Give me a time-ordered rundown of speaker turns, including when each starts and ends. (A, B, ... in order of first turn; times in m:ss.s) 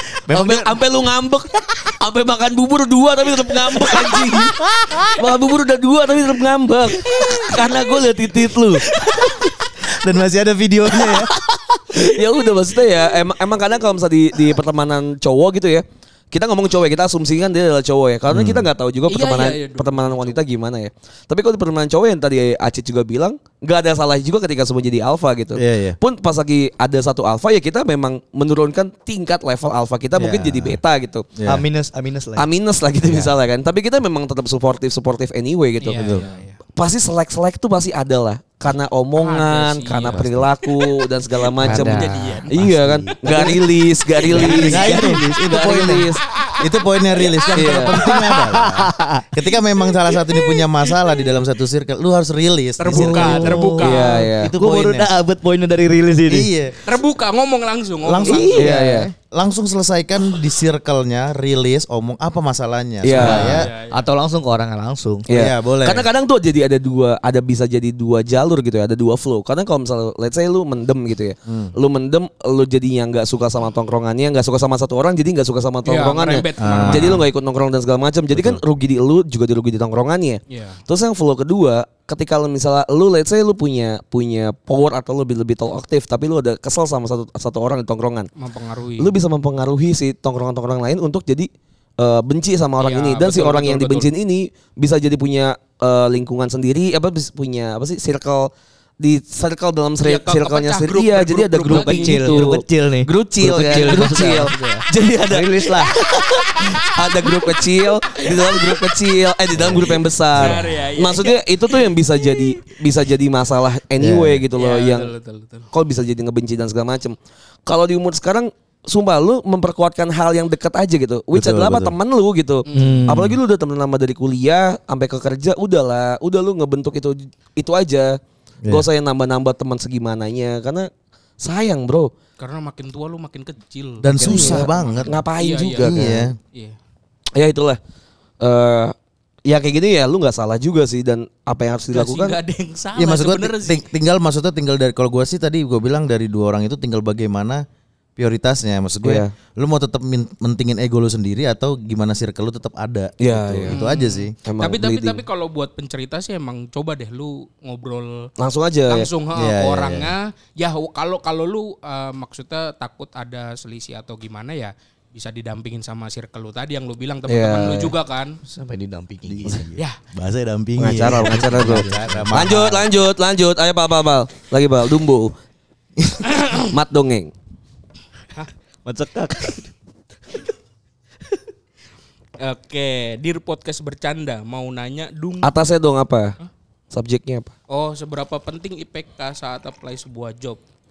0:00.2-0:00.8 A
0:00.3-0:04.6 B
0:04.6-0:05.2 A
0:05.1-0:08.8 B
0:07.1-0:07.5 C
0:08.9-0:09.5 C
0:09.4-0:11.3 A
0:11.0-0:31.2 B
0:18.3-0:18.7 A
0:19.1-0:20.4 C
0:25.6-0:26.0 A
0:30.2-0:30.8 A
0:31.4-0:31.6 A
0:31.5-0:32.5 D
0:32.4-0:36.2 B
0:35.8-0:36.6 C
0:36.0-0:36.3 A
0:36.8-0:46.2 B
0:39.2-0:40.7 C
0:40.1-0:40.4 A
0:41.6-0:43.6 D
0:41.7-0:42.6 C
0:42.6-0:43.5 A
0:43.3-0:43.6 C
0:44.2-0:45.0 C
0:44.2-0:46.0 D
0:44.6-0:46.1 A
0:46.3-0:48.3 C
0:46.6-0:55.1 A
0:47.6-0:48.1 B
0:48.5-0:49.2 D
0:50.1-0:50.6 C
0:52.8-0:54.2 C
0:52.9-0:53.9 D
0:53.8-0:54.5 B
0:54.6-0:56.5 D
0:56.3-0:56.7 A
0:56.8-0:58.7 C
0:58.0-1:03.7 A
0:58.6-0:59.1 B
0:58.6-0:59.1 D
1:03.0-1:03.6 B
1:03.1-1:05.2 D
1:03.2-1:04.0 C
1:05.3-1:28.3 B
1:05.3-1:06.1 A
1:11.5-1:11.7 A
1:15.8-1:17.2 C
1:16.6-1:17.2 A
1:18.3-1:18.6 A
1:20.5-1:20.8 C
1:28.4-1:29.1 C
1:29.0-1:55.1 B
1:32.8-1:34.1 C
1:40.0-1:42.5 C
1:41.7-1:46.0 D
1:44.5-1:44.8 C
1:46.2-1:47.3 C
1:48.1-1:48.7 C
1:49.5-1:50.0 D
1:50.3-1:51.8 C
1:54.0-1:54.4 D
1:54.6-1:55.7 C
1:55.7-1:57.1 B
1:57.7-2:08.2 B
2:01.3-2:01.9 A
2:02.7-2:03.1 C
2:02.7-2:03.4 D
2:08.7-2:10.9 B
2:11.4-2:12.1 B
2:12.4-2:15.9 C
2:14.0-2:15.2 A
2:14.2-2:16.3 B
2:15.8-2:16.4 A
2:16.5-2:16.8 C
2:17.3-2:17.8 B
2:18.4-2:18.9 B
2:19.5-2:22.4 B
2:21.9-2:23.8 C
2:23.0-2:27.6 A
2:28.2-2:34.3 A
2:29.0-2:29.3 B
2:33.2-2:33.8 B
2:33.7-2:38.3 C
2:34.4-2:35.2 B
2:38.4-2:39.1 B
2:38.9-2:48.4 C
2:39.4-2:40.1 A
2:47.3-2:47.9 B
2:48.4-2:49.6 D
2:49.3-2:52.9 A
2:50.8-2:55.3 B
2:51.5-2:52.3 D
2:56.2-2:56.6 C
2:56.6-2:57.3 B
2:58.8-2:59.7 D
3:02.4-3:05.5 C
3:05.4-3:06.3 B
3:06.9-3:07.5 B
3:07.7-3:10.6 C